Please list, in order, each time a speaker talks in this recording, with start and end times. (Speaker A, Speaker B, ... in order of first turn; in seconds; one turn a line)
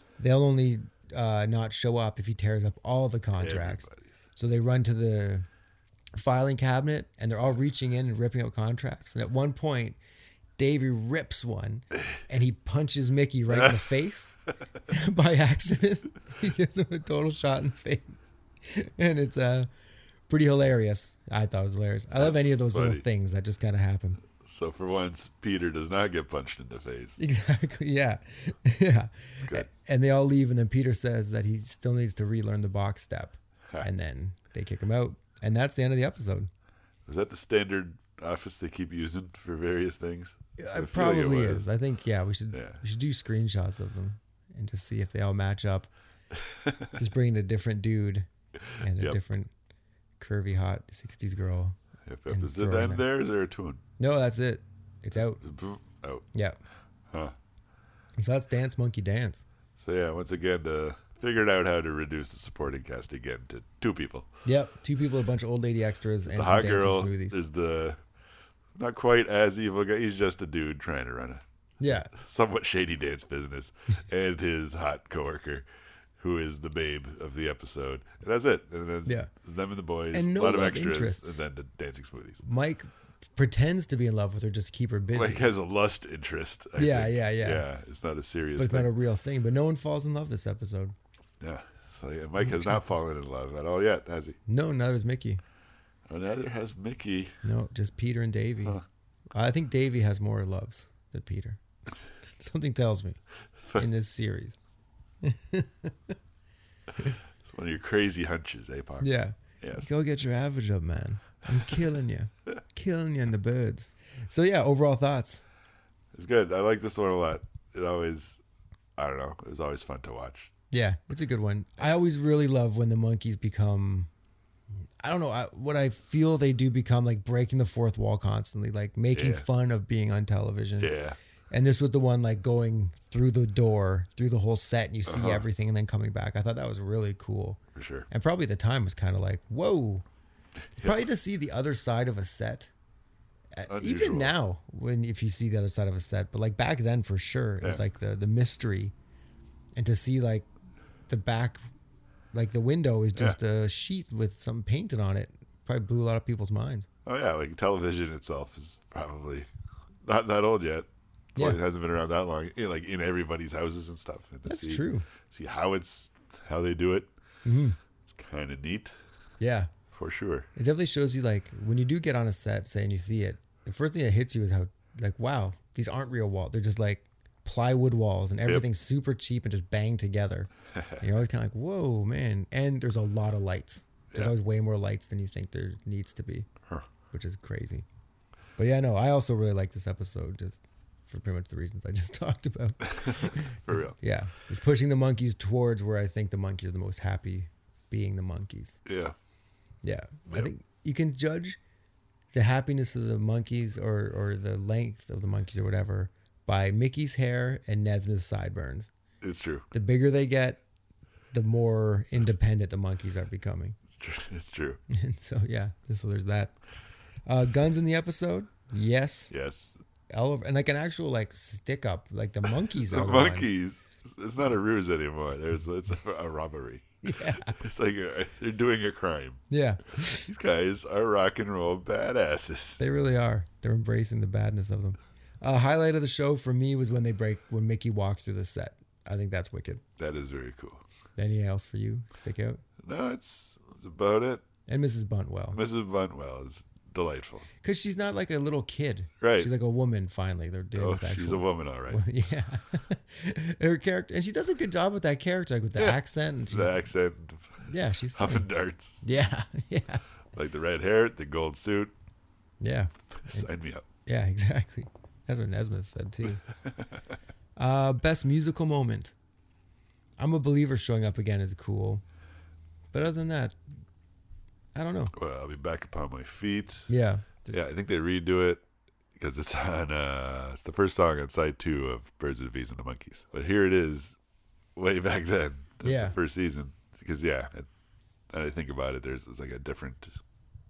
Speaker A: 0.2-5.5
Speaker B: 3.4-4.1
Speaker A: 6.1-10.0
Speaker A: 10.6-14.3
Speaker A: 14.9-19.7
Speaker A: 20.3-24.2
Speaker B: 22.2-23.0
Speaker B: 24.4-27.2
Speaker A: 27.2-36.5
Speaker B: 29.4-29.7
Speaker B: 37.0-41.7
Speaker A: 40.6-45.9
Speaker B: 42.5-42.8
Speaker B: 46.5-46.8
Speaker A: 47.0-48.3
Speaker A: 48.8-49.5
Speaker B: 48.8-49.2
Speaker A: 50.2-51.8
Speaker B: 52.0-53.8
Speaker A: 52.3-53.0
Speaker A: 54.0-55.4
Speaker B: 55.2-56.2
Speaker A: 56.3-56.6
Speaker B: 57.1-57.3
Speaker A: 58.2-59.4
Speaker B: 59.8-64.3
Speaker A: 64.4-67.4
Speaker B: 66.3-68.0
Speaker B: 68.7-75.7
Speaker A: 71.8-72.1
Speaker B: 76.2-82.4
Speaker A: 80.1-81.4
Speaker A: 82.4-85.5
Speaker B: 85.1-88.9
Speaker A: 86.8-87.6
Speaker A: 88.6-90.9
Speaker B: 91.4-94.4
Speaker A: 92.4-92.9
Speaker A: 94.5-95.4
Speaker B: 96.1-97.4
Speaker A: 97.4-98.8
Speaker A: 99.3-101.6
Speaker A: 102.4-103.2
Speaker A: 103.8-104.6
Speaker A: 105.2-106.1
Speaker B: 107.5-109.9
Speaker A: 109.0-115.4
Speaker B: 116.1-118.4
Speaker B: 119.0-120.5
Speaker A: 120.7-124.1
Speaker A: 125.0-130.9
Speaker B: 129.1-129.4
Speaker B: 130.8-131.2
Speaker A: 131.5-140.0
Speaker B: 135.1-135.4
Speaker B: 137.7-138.1
Speaker A: 140.8-142.7
Speaker A: 143.6-148.9
Speaker B: 143.7-144.3
Speaker A: 149.8-150.5
Speaker A: 151.1-151.6
Speaker A: 152.3-156.9
Speaker B: 157.0-159.5
Speaker B: 160.0-167.1
Speaker A: 164.4-165.1
Speaker A: 167.4-167.8
Speaker B: 168.0-169.0
Speaker A: 169.4-169.7
Speaker B: 169.9-170.5
Speaker A: 170.6-186.5
Speaker A: 187.1-187.8
Speaker A: 188.6-198.8
Speaker B: 192.9-193.9
Speaker B: 198.8-199.2
Speaker A: 199.8-201.6
Speaker A: 202.3-208.9
Speaker B: 209.2-209.7
Speaker A: 209.7-210.6
Speaker A: 211.3-213.8
Speaker B: 213.9-214.8
Speaker A: 214.9-216.5
Speaker A: 217.3-219.3
Speaker B: 219.3-219.7
Speaker A: 220.1-223.5
Speaker B: 222.7-229.4
Speaker A: 227.0-227.6
Speaker A: 229.5-230.3
Speaker B: 229.9-232.8
Speaker A: 232.8-239.8
Speaker B: 240.0-240.8
Speaker A: 241.2-242.6
Speaker B: 242.8-244.4
Speaker A: 244.7-245.6
Speaker B: 245.5-247.5
Speaker A: 247.6-256.8
Speaker B: 249.2-249.5
Speaker B: 250.7-252.0
Speaker B: 255.8-257.6
Speaker A: 257.6-258.5
Speaker B: 258.1-259.0
Speaker A: 259.0-260.0
Speaker B: 260.3-261.9
Speaker A: 262.6-263.5
Speaker B: 263.2-263.8
Speaker A: 264.1-266.4
Speaker A: 267.6-269.1
Speaker A: 270.2-272.0
Speaker A: 272.9-273.6
Speaker A: 274.7-275.1
Speaker B: 275.1-276.9
Speaker A: 276.9-277.6
Speaker B: 277.5-278.6
Speaker B: 279.1-284.1
Speaker B: 284.8-287.7
Speaker A: 285.8-286.2
Speaker B: 288.3-290.2